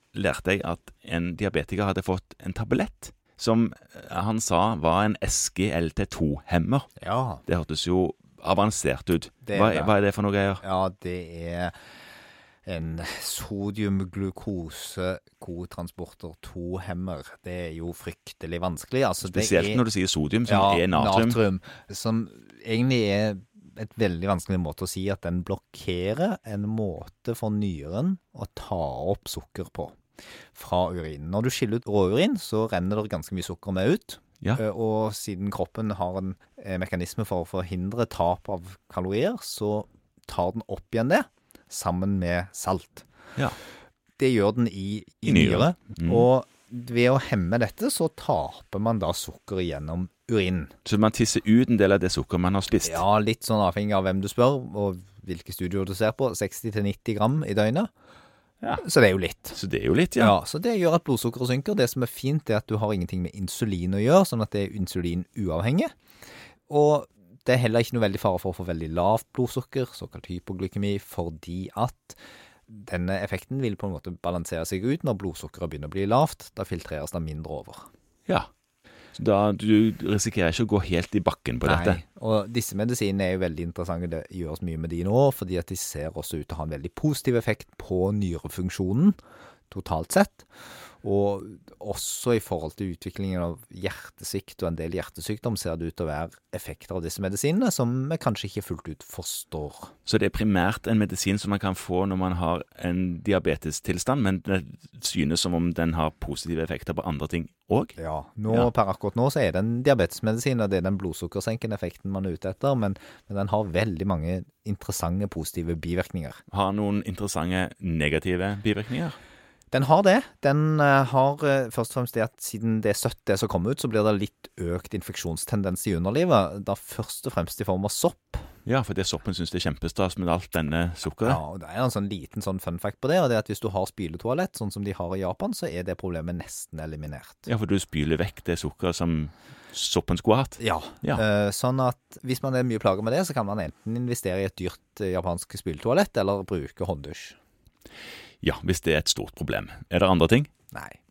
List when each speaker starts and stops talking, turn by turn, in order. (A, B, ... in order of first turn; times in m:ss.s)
0:00.1-0:06.9 A
0:07.0-0:07.4 B
0:07.5-0:10.6 A
0:09.4-0:09.9 B
0:10.6-0:11.8 B
0:12.7-0:19.8 B
0:19.2-0:21.4 A
0:20.5-0:30.0 B
0:30.6-0:43.1 B
0:44.2-0:50.7 B
0:45.3-0:46.3 A
0:50.8-0:53.0 A
0:52.8-0:57.9 B
0:58.8-0:59.6 B
0:59.5-1:00.4 A
1:00.2-1:05.9 B
1:06.7-1:17.9 B
1:19.2-1:22.0 A
1:21.6-1:29.2 B
1:29.7-1:30.5 B
1:31.0-1:39.9 B
1:40.1-1:48.0 A
1:48.0-1:56.4 B
1:56.5-1:59.2 A
1:59.7-2:08.5 B
2:08.6-2:11.4 A
2:11.2-2:17.5 B
2:17.5-2:21.2 A
2:20.6-2:27.4 B
2:28.4-2:30.5 A
2:30.7-2:31.0 B